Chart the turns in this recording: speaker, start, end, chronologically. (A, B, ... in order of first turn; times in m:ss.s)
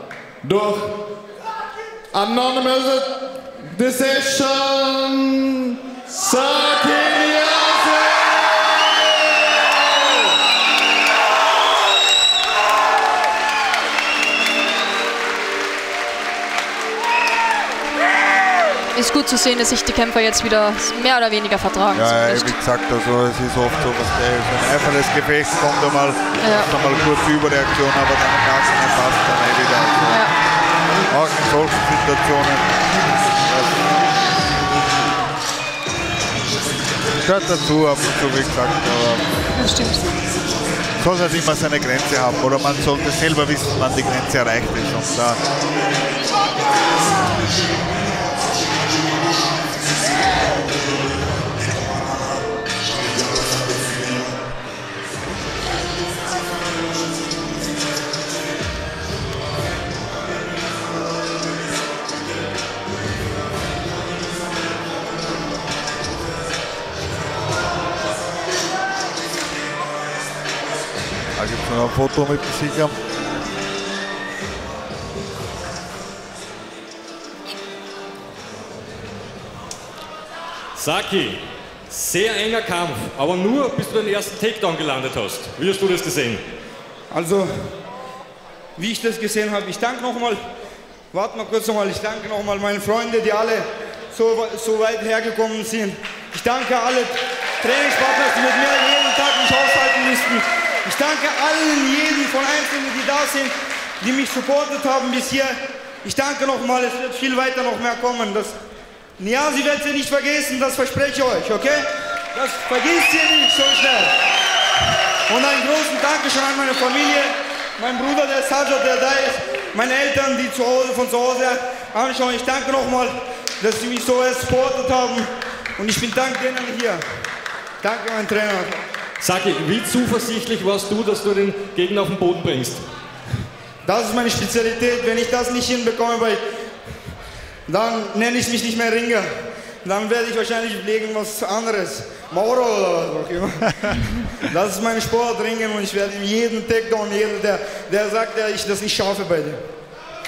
0:00.5-0:01.0 A
0:02.1-0:09.0 A
0:18.9-0:22.6 B
0:21.9-0:30.3 C
0:26.4-0:26.7 B
0:30.0-0:30.4 B
0:31.1-0:33.9 C
0:37.2-0:39.4 C
0:39.5-0:40.1 B
0:41.0-0:45.4 C
1:11.4-1:13.0 C
1:20.8-1:26.4 D
1:27.1-1:27.5 E
1:28.8-1:30.4 E
1:31.1-1:48.6 E
1:49.2-1:54.2 E
1:55.3-2:07.0 E
2:07.8-2:08.8 E
2:09.2-2:12.8 D
2:13.8-2:16.4 E
2:17.7-2:19.3 E
2:19.8-2:29.6 E